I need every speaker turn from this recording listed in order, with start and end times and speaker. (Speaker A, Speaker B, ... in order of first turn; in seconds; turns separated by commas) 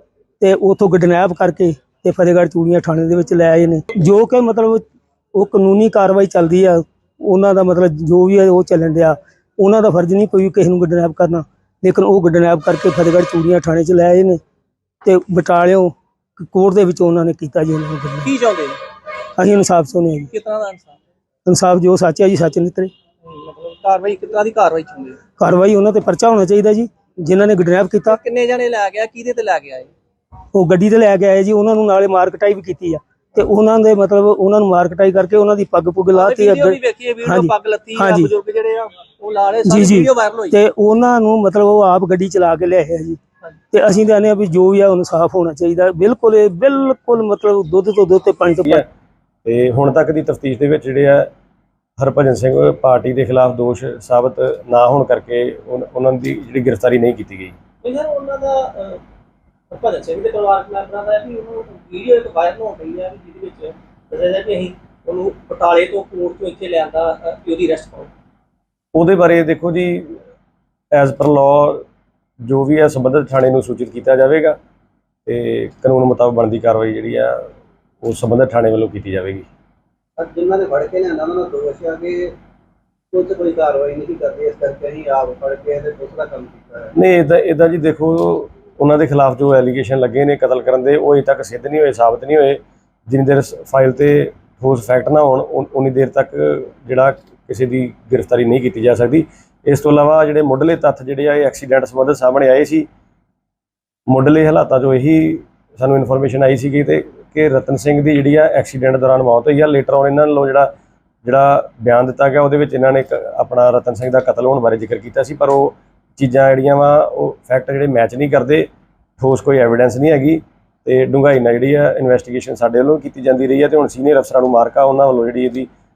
Speaker A: 0.4-14.4, Speaker A: 15.0-18.3, Speaker B: 18.2-18.8, Speaker A: 19.4-20.3, Speaker B: 20.3-21.0, Speaker A: 21.5-22.9, Speaker B: 23.2-25.2, Speaker A: 25.4-28.2, Speaker B: 28.1-29.9, Speaker A: 30.5-38.3, Speaker B: 36.1-40.6, Speaker A: 39.7-43.2, Speaker A: 43.7-48.9, Speaker C: 49.5-51.3, Speaker C: 52.0-57.6, Speaker B: 57.8-59.0, Speaker B: 59.7-68.1, Speaker C: 68.9-70.2, Speaker C: 70.9-71.9, Speaker C: 72.5-74.6, Speaker C: 75.3-77.5, Speaker C: 78.0-79.5, Speaker D: 80.2-82.3, Speaker D: 83.1-86.9, Speaker C: 86.9-102.9, Speaker C: 104.1-110.7, Speaker C: 111.2-118.7, Speaker C: 119.2-125.7